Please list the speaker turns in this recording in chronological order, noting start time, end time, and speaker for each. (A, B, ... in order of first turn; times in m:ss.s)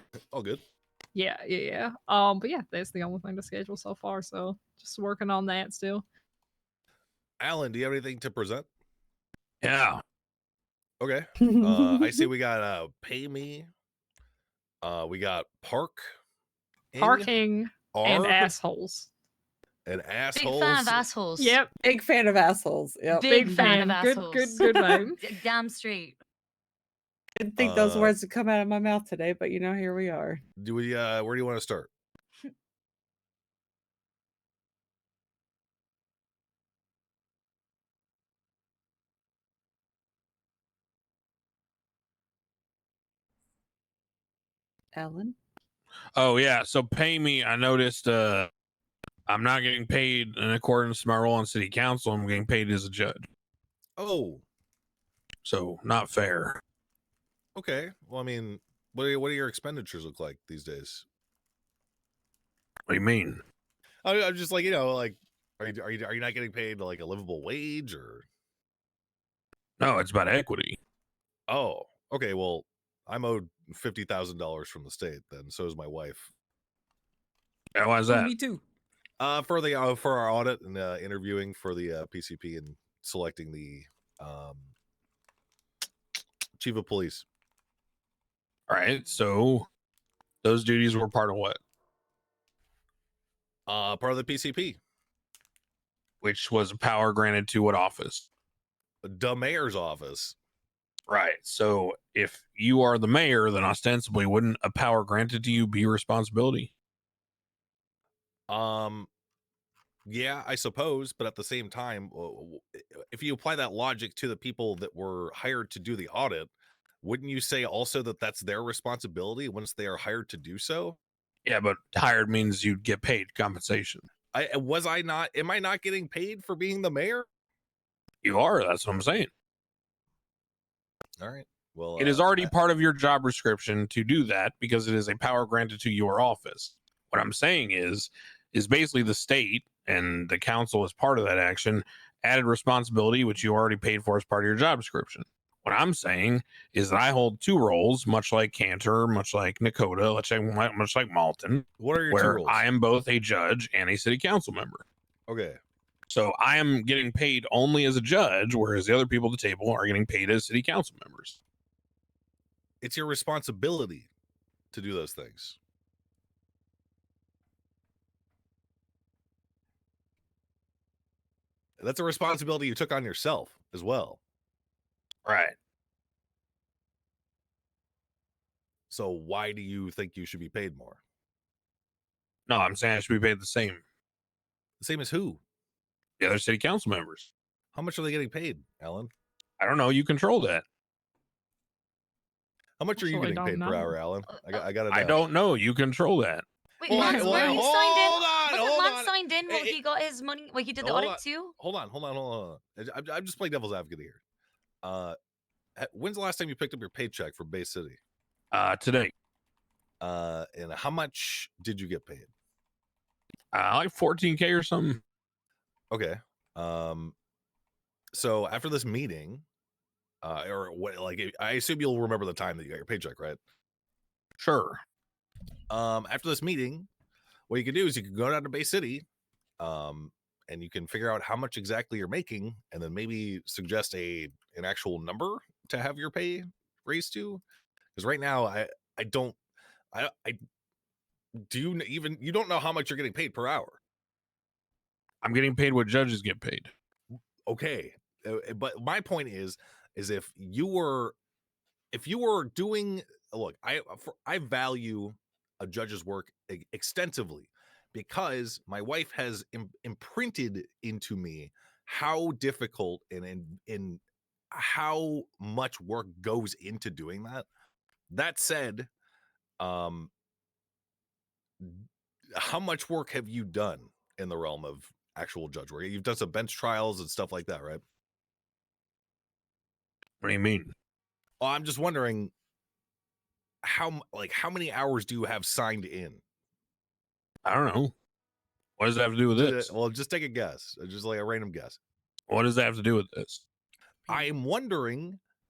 0:00.3-0:00.6 A
0:01.1-0:06.0 B
0:07.4-0:08.7 A
0:09.6-0:10.0 C
0:11.0-0:13.7 A
0:11.5-0:12.2 D
0:14.8-0:16.1 A
0:16.9-0:17.3 A
0:17.0-0:19.1 B
0:17.9-0:18.5 A
0:19.9-0:21.1 A
0:20.3-0:21.6 E
0:21.4-0:21.7 B
0:21.8-0:23.8 D
0:23.1-0:26.2 E
0:23.2-0:25.2 B
0:27.4-0:30.4 D
0:27.6-0:28.2 A
0:30.6-0:31.9 A
0:44.9-0:45.4 D
0:46.2-0:48.5 C
0:49.3-0:53.3 C
0:54.0-0:54.4 A
0:55.4-0:56.6 C
0:57.6-1:01.0 A
1:02.9-1:03.4 C
1:04.0-1:08.3 A
1:09.8-1:10.8 C
1:11.5-1:16.3 A
1:17.8-1:18.3 C
1:18.1-1:18.6 D
1:19.2-1:24.7 A
1:26.6-1:27.3 A
1:28.7-1:29.7 C
1:30.4-1:31.6 C
1:33.7-1:34.8 A
1:36.2-1:38.3 C
1:39.0-1:40.4 A
1:41.1-1:46.7 C
1:48.5-1:49.1 A
1:50.1-2:01.0 A
2:01.4-2:04.0 C
2:04.3-2:07.3 A
2:08.2-2:09.3 C
2:11.2-2:12.5 A
2:12.0-2:34.8 C
2:31.8-2:32.6 A
2:35.3-2:35.6 A
2:36.1-2:41.4 C
2:42.8-2:44.1 A
2:44.7-2:45.6 A
2:51.8-2:54.2 A
2:55.2-2:55.6 C
2:58.9-3:01.0 A
3:02.5-3:03.8 C
3:04.8-3:05.4 A
3:06.2-3:07.3 C
3:07.7-3:09.1 A
3:09.6-3:10.6 C
3:12.8-3:15.2 A
3:13.0-3:13.9 B
3:14.4-3:14.6 E
3:14.9-3:16.4 C
3:16.8-3:21.5 E
3:16.9-3:19.8 A
3:17.0-3:17.6 B
3:17.1-3:17.5 C
3:20.8-3:24.2 A
3:24.8-3:25.2 A
3:25.8-3:28.0 A
3:28.5-3:29.1 C
3:30.0-3:32.3 A
3:33.5-3:35.0 C
3:35.9-3:37.2 A
3:38.1-3:39.4 A
3:40.2-3:43.4 A
3:44.4-3:44.8 C
3:45.7-3:46.9 A
3:47.5-3:49.0 A
3:49.6-3:57.4 A
3:58.0-3:59.4 A
3:59.9-4:00.4 A
4:01.4-4:03.8 A
4:05.2-4:06.7 C
4:07.5-4:11.2 A
4:11.9-4:27.5 A
4:28.1-4:28.9 A
4:29.6-4:30.1 A
4:31.6-4:37.8 A
4:40.2-4:40.7 C
4:41.4-4:42.3 A
4:43.6-4:46.2 A
4:47.4-4:47.9 C
4:48.8-4:49.7 C
4:49.3-4:51.8 A
4:52.3-4:53.4 C
4:54.1-4:55.2 A